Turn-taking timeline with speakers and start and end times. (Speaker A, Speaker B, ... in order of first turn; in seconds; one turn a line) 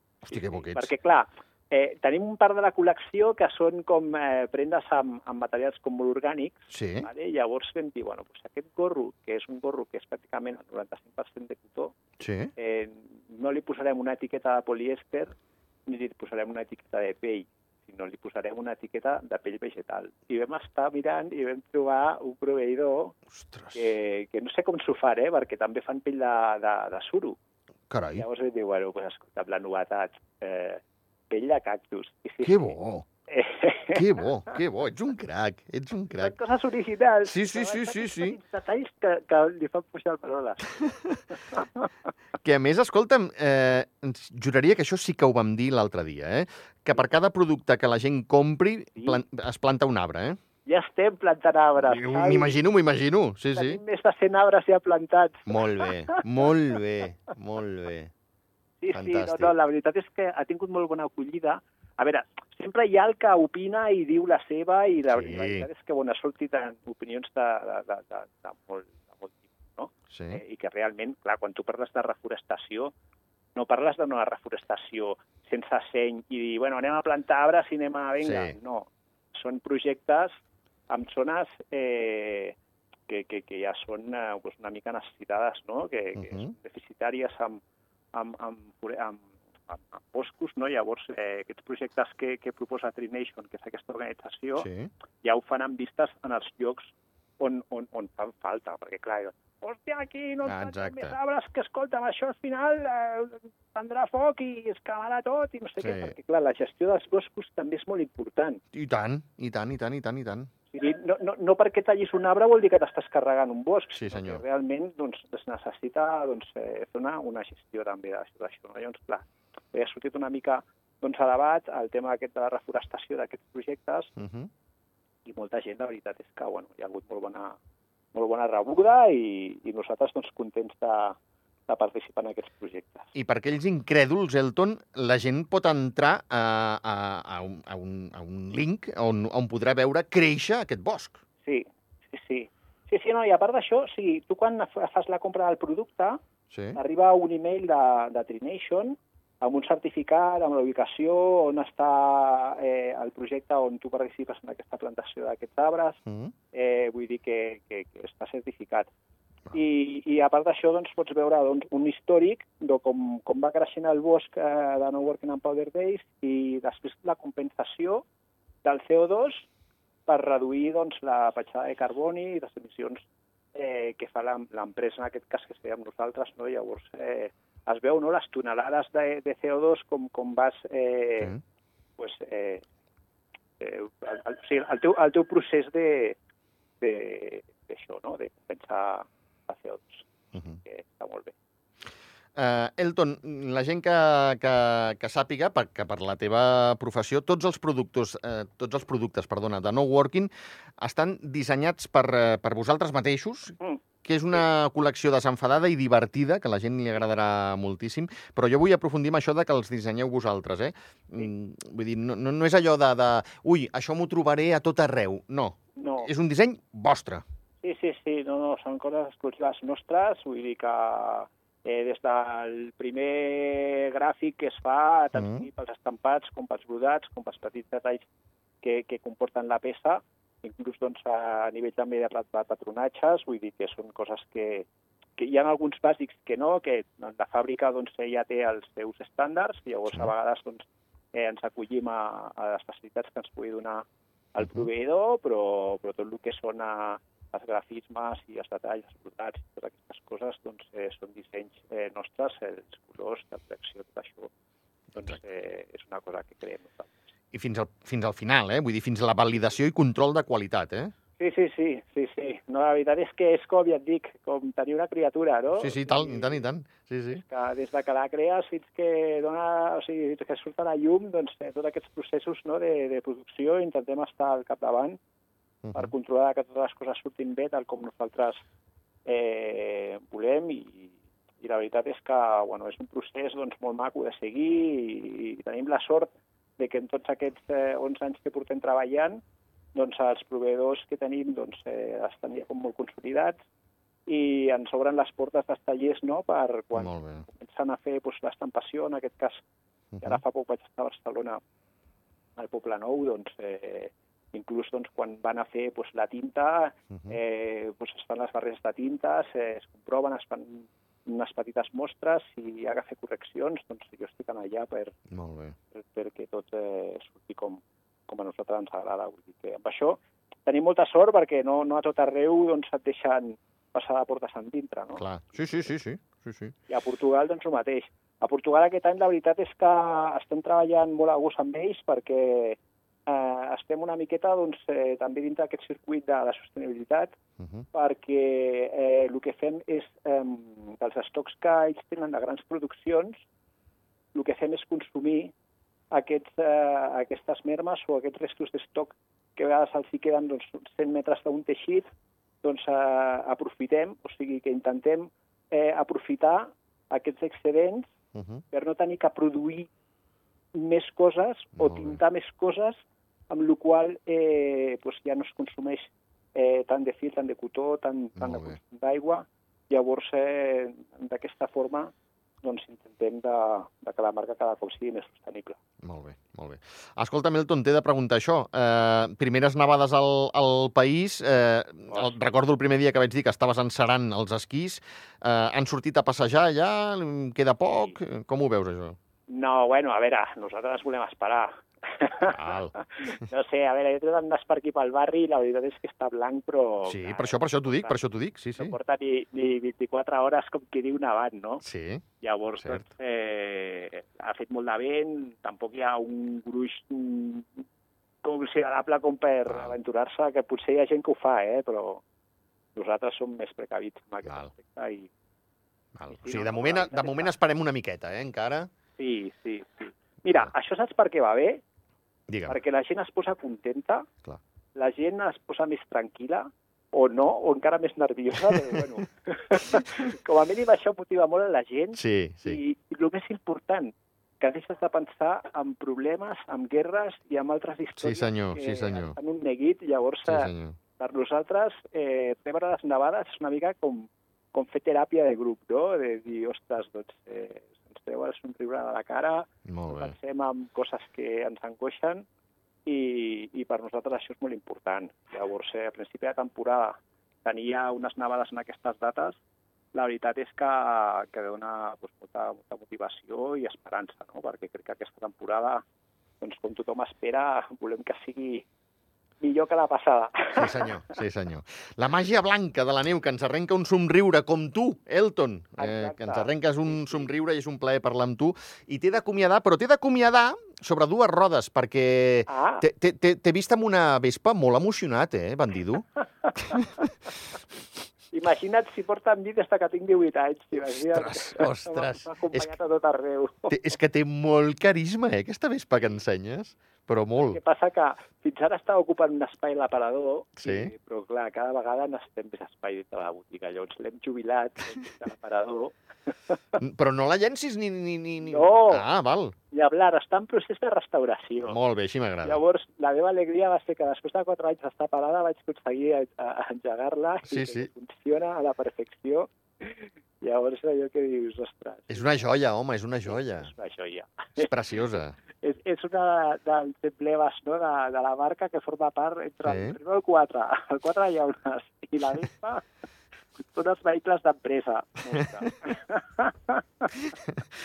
Speaker A: 0.2-0.9
Speaker B: 0.3-11.9
Speaker A: 6.7-7.1
Speaker A: 12.2-12.5
Speaker B: 12.6-15.3
Speaker B: 15.9-23.1
Speaker A: 23.3-23.9
Speaker B: 23.7-27.4
Speaker A: 27.9-28.2
Speaker B: 28.1-32.7
Speaker A: 32.4-33.0
Speaker B: 33.3-34.5
Speaker A: 33.9-36.3
Speaker B: 36.2-41.9
Speaker A: 37.2-38.4
Speaker A: 40.8-41.2
Speaker A: 42.4-50.4
Speaker B: 50.6-52.5
Speaker A: 51.8-53.8
Speaker B: 53.5-56.2
Speaker A: 55.5-58.1
Speaker B: 58.8-72.9
Speaker A: 58.9-59.5
Speaker A: 65.1-65.7
Speaker A: 70.1-70.4
Speaker B: 73.5-80.3
Speaker A: 78.2-78.5
Speaker B: 80.9-82.6
Speaker B: 83.1-87.6
Speaker A: 86.2-86.5
Speaker B: 88.1-94.7
Speaker A: 94.6-94.9
Speaker B: 95.2-108.6
Speaker A: 100.5-101.2
Speaker A: 105.8-106.1
Speaker A: 108.7-110.5
Speaker B: 110.7-124.1
Speaker A: 114.0-114.4
Speaker A: 124.2-124.5
Speaker B: 125.2-127.6
Speaker B: 128.1-133.1
Speaker A: 133.1-141.2
Speaker B: 141.4-146.2
Speaker A: 146.5-146.8
Speaker B: 146.8-156.0
Speaker A: 156.1-156.3
Speaker B: 156.5-158.9
Speaker B: 159.5-168.0
Speaker B: 168.6-169.5
Speaker B: 170.1-173.0
Speaker B: 173.5-181.3
Speaker B: 182.0-182.6
Speaker B: 183.6-186.2
Speaker B: 186.8-190.1
Speaker A: 190.3-190.6
Speaker B: 190.6-191.3
Speaker A: 192.3-217.2
Speaker B: 215.8-216.1
Speaker B: 217.6-228.0
Speaker A: 225.1-225.4
Speaker B: 228.6-254.3
Speaker A: 244.4-244.7
Speaker A: 254.9-255.2
Speaker B: 254.9-257.0
Speaker A: 257.3-260.9
Speaker B: 261.2-266.4
Speaker A: 265.5-267.2
Speaker B: 267.1-275.0
Speaker A: 275.6-275.9
Speaker B: 275.7-278.4
Speaker B: 279.1-289.2
Speaker B: 289.7-293.4
Speaker B: 294.1-299.4
Speaker A: 296.7-297.2
Speaker A: 299.9-300.2
Speaker B: 300.0-301.4
Speaker B: 302.4-314.9
Speaker A: 306.9-307.2
Speaker A: 315.1-315.6
Speaker B: 315.7-325.0
Speaker A: 325.0-326.5
Speaker B: 326.7-337.1
Speaker A: 337.4-337.7
Speaker B: 337.7-343.2
Speaker B: 344.1-345.3
Speaker B: 345.9-351.9
Speaker B: 352.4-357.9
Speaker A: 358.1-358.4
Speaker B: 358.5-359.7
Speaker B: 360.5-371.9
Speaker A: 361.6-362.0
Speaker A: 368.2-368.6
Speaker B: 372.4-375.6
Speaker A: 375.8-388.9
Speaker B: 381.9-382.1
Speaker B: 387.7-388.0
Speaker B: 389.3-398.0
Speaker A: 392.2-392.7
Speaker A: 396.8-398.7
Speaker B: 398.6-401.6
Speaker A: 401.6-402.0
Speaker B: 402.2-407.5
Speaker A: 402.6-402.9
Speaker B: 408.2-412.0
Speaker A: 409.5-409.8
Speaker B: 412.8-415.1
Speaker A: 416.0-418.7
Speaker B: 416.1-417.3
Speaker B: 419.0-421.6
Speaker A: 422.3-422.6
Speaker B: 422.5-424.1
Speaker B: 424.8-452.2
Speaker A: 428.5-428.8
Speaker A: 431.9-432.6
Speaker A: 437.9-439.1
Speaker A: 440.3-440.8
Speaker A: 449.7-450.1
Speaker B: 452.9-459.4
Speaker B: 459.9-465.8
Speaker B: 466.4-468.6
Speaker B: 469.4-471.2
Speaker A: 470.5-487.1
Speaker B: 475.8-477.3
Speaker B: 482.5-482.8
Speaker B: 486.5-486.8
Speaker B: 488.3-493.7
Speaker A: 490.9-492.7
Speaker A: 493.7-497.6
Speaker B: 497.4-506.8
Speaker A: 500.6-500.9
Speaker A: 506.8-509.5
Speaker B: 508.4-509.0
Speaker B: 509.7-511.8
Speaker A: 511.6-512.6
Speaker B: 512.4-522.3
Speaker A: 517.5-517.9
Speaker A: 522.1-523.7
Speaker B: 523.2-524.7
Speaker A: 524.6-525.4
Speaker B: 525.6-532.8
Speaker A: 529.6-530.0
Speaker B: 533.6-537.1
Speaker A: 537.1-537.5